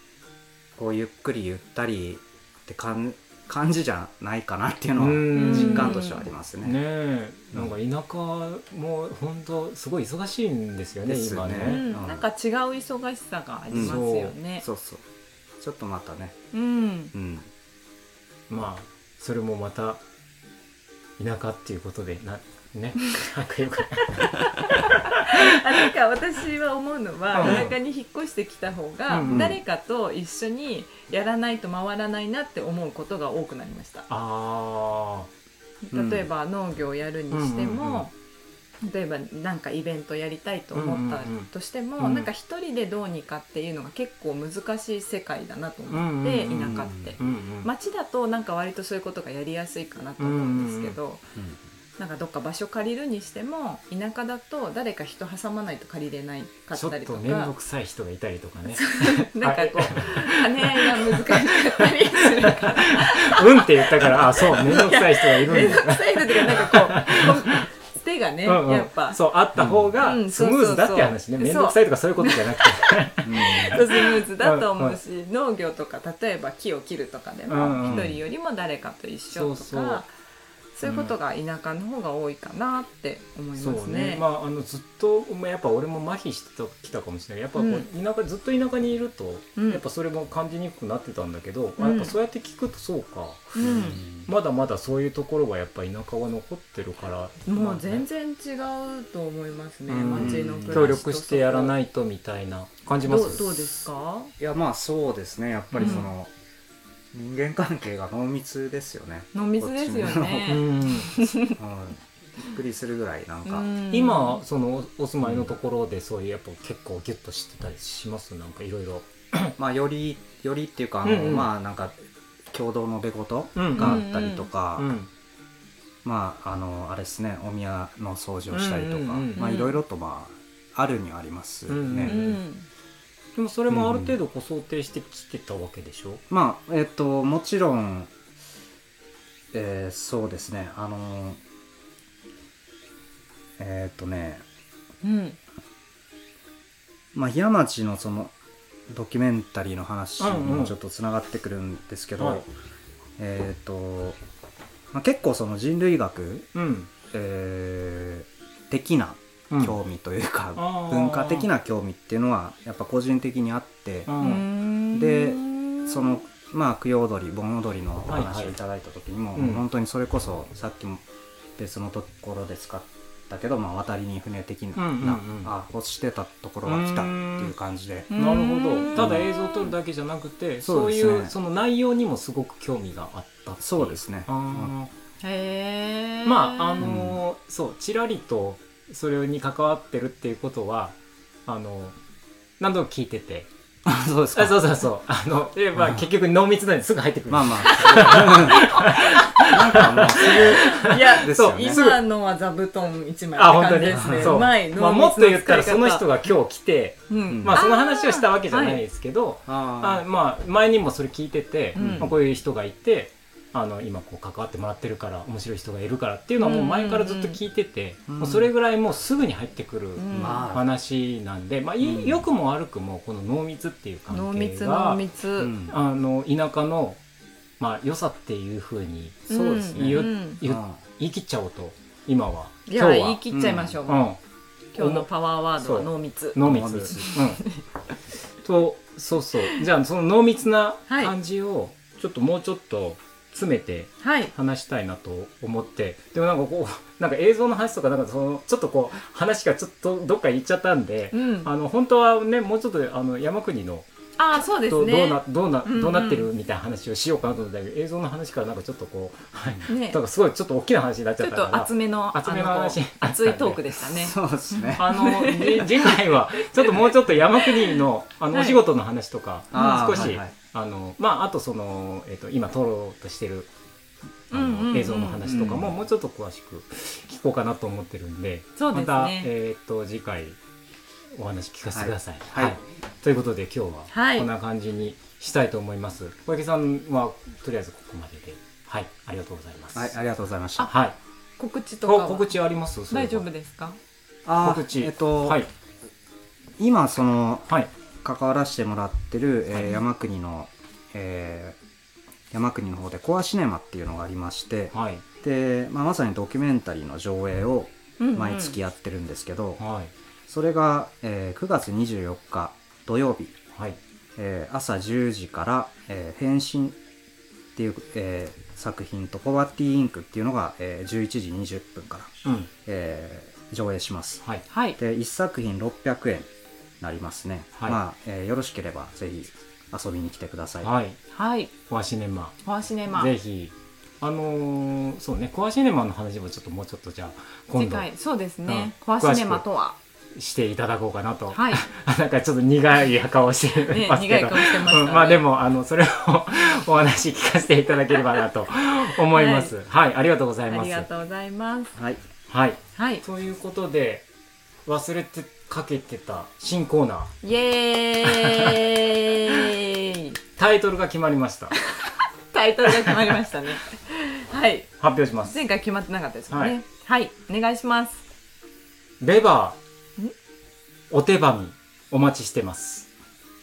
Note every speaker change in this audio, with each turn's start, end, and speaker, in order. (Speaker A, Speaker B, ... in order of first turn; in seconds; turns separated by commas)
Speaker A: 0.8-6.8, Speaker B: 5.0-6.1, Speaker C: 5.3-6.2, Speaker B: 6.6-11.8, Speaker A: 11.0-12.2, Speaker C: 11.6-14.6, Speaker A: 13.7-14.0, Speaker B: 13.7-14.3, Speaker A: 14.6-15.0, Speaker A: 15.6-16.4, Speaker C: 16.5-17.1, Speaker A: 17.1-17.5, Speaker B: 18.5-20.0, Speaker B: 21.2-25.8, Speaker C: 24.2-34.1, Speaker B: 27.3-27.7, Speaker A: 27.4-27.7, Speaker B: 29.1-29.5, Speaker A: 29.2-29.6, Speaker B: 34.1-35.3, Speaker C: 35.8-38.1, Speaker A: 35.9-36.3, Speaker B: 37.3-38.1, Speaker C: 38.8-51.2, Speaker B: 40.7-42.3, Speaker B: 45.9-47.7, Speaker A: 46.7-47.1, Speaker B: 50.2-51.0, Speaker C: 52.0-57.5, Speaker B: 56.7-67.7, Speaker C: 58.7-69.2, Speaker B: 68.4-75.0, Speaker A: 69.5-69.9, Speaker C: 70.0-80.1, Speaker A: 73.2-73.8, Speaker B: 77.5-78.1, Speaker A: 77.8-78.2, Speaker B: 79.3-80.0, Speaker C: 80.8-84.2, Speaker B: 80.8-81.1, Speaker B: 83.5-98.0, Speaker C: 87.5-87.8, Speaker C: 89.5-89.8, Speaker C: 91.8-92.1, Speaker C: 93.5-94.0, Speaker A: 93.6-94.3, Speaker C: 97.5-101.7, Speaker B: 99.9-103.9, Speaker A: 100.1-101.0, Speaker C: 103.0-104.3, Speaker A: 104.4-106.3, Speaker B: 105.7-106.0, Speaker C: 105.8-106.0, Speaker A: 107.1-110.6, Speaker C: 109.3-111.6, Speaker B: 110.5-111.1, Speaker A: 111.5-113.7, Speaker C: 113.5-114.4, Speaker B: 113.9-119.5, Speaker A: 119.6-122.0, Speaker B: 121.0-121.5, Speaker A: 122.5-124.9, Speaker B: 123.5-124.1, Speaker C: 123.8-124.5, Speaker B: 124.8-125.1, Speaker A: 126.0-132.2, Speaker B: 128.5-129.5, Speaker C: 129.3-129.8, Speaker B: 131.7-132.4, Speaker C: 132.0-132.7, Speaker B: 133.3-136.2, Speaker A: 133.7-134.2, Speaker A: 136.3-138.1, Speaker A: 139.5-141.4, Speaker A: 143.6-144.4, Speaker C: 145.0-145.4, Speaker A: 147.1-148.3, Speaker A: 148.9-152.5, Speaker B: 150.2-150.7, Speaker B: 152.2-152.4, Speaker A: 153.2-154.2, Speaker A: 154.9-156.5, Speaker B: 156.5-156.9, Speaker A: 157.1-171.0, Speaker B: 159.5-159.8, Speaker B: 160.6-161.5, Speaker B: 164.1-164.4, Speaker C: 164.2-166.1, Speaker B: 168.1-168.5, Speaker B: 169.3-169.6, Speaker A: 171.6-178.1, Speaker B: 174.8-175.5, Speaker B: 176.6-177.5, Speaker C: 178.1-179.3, Speaker B: 178.1-184.9, Speaker A: 178.9-179.3, Speaker A: 180.6-181.3, Speaker A: 183.6-184.7, Speaker C: 185.2-186.9, Speaker B: 186.2-191.9, Speaker A: 186.8-187.2, Speaker B: 192.6-193.5, Speaker A: 193.8-194.6, Speaker B: 194.3-202.0, Speaker A: 195.8-196.0, Speaker A: 197.3-198.8, Speaker C: 197.7-199.2, Speaker A: 199.4-201.8, Speaker C: 200.1-206.1, Speaker B: 203.3-225.0, Speaker A: 203.9-204.4, Speaker C: 207.1-208.8, Speaker A: 207.3-207.6, Speaker A: 209.5-210.0, Speaker C: 211.7-212.1, Speaker A: 211.8-212.1, Speaker C: 216.4-217.4, Speaker A: 218.1-218.5, Speaker C: 220.0-220.5, Speaker A: 220.1-220.7, Speaker A: 221.8-222.2, Speaker C: 224.1-225.5, Speaker A: 225.4-225.7, Speaker B: 225.7-227.0, Speaker B: 227.6-234.2, Speaker C: 229.3-230.4, Speaker A: 229.3-230.8, Speaker C: 232.7-234.1, Speaker A: 233.3-233.7, Speaker C: 234.7-236.4, Speaker B: 234.8-235.1, Speaker B: 235.6-237.4, Speaker A: 236.4-237.1, Speaker C: 236.9-237.6, Speaker B: 238.4-263.9, Speaker C: 244.0-244.3, Speaker C: 251.1-251.5, Speaker C: 254.2-256.3, Speaker C: 259.7-260.0, Speaker C: 261.2-264.2, Speaker A: 264.0-264.9, Speaker B: 264.8-273.5, Speaker C: 264.9-268.6, Speaker C: 269.5-270.2, Speaker A: 269.5-270.3, Speaker C: 274.3-275.3, Speaker B: 274.3-280.4, Speaker A: 275.2-275.7, Speaker C: 278.6-279.3, Speaker B: 281.1-289.9, Speaker A: 281.7-282.6, Speaker C: 283.9-284.3, Speaker A: 289.7-290.7, Speaker B: 290.6-290.9, Speaker C: 291.4-292.3, Speaker B: 291.8-293.2, Speaker C: 292.9-293.8, Speaker A: 294.2-295.4, Speaker B: 294.4-295.5, Speaker A: 296.6-297.5, Speaker A: 298.0-301.6, Speaker A: 302.3-309.6, Speaker B: 304.7-305.0, Speaker C: 308.0-308.6, Speaker B: 309.6-309.9, Speaker A: 310.3-313.4, Speaker A: 314.2-316.8, Speaker A: 317.5-322.1, Speaker B: 322.2-322.5, Speaker A: 322.6-324.2, Speaker C: 324.5-324.8, Speaker A: 324.8-326.3, Speaker A: 326.8-330.7, Speaker B: 330.6-331.0, Speaker C: 331.1-331.5, Speaker B: 331.7-332.4, Speaker C: 332.4-333.1, Speaker B: 332.9-337.9, Speaker C: 337.5-339.8, Speaker B: 338.4-339.4, Speaker B: 340.1-350.9, Speaker C: 341.3-341.6, Speaker C: 343.7-345.2, Speaker C: 349.1-349.5, Speaker C: 350.5-351.7, Speaker B: 352.3-354.1, Speaker C: 352.8-353.0, Speaker B: 354.6-357.1, Speaker C: 357.2-360.2, Speaker B: 358.1-358.6, Speaker B: 360.4-361.6, Speaker C: 361.8-364.7, Speaker B: 362.7-363.1, Speaker B: 364.8-365.4, Speaker C: 365.3-368.0, Speaker B: 366.3-366.6, Speaker B: 369.0-369.6, Speaker B: 370.9-372.9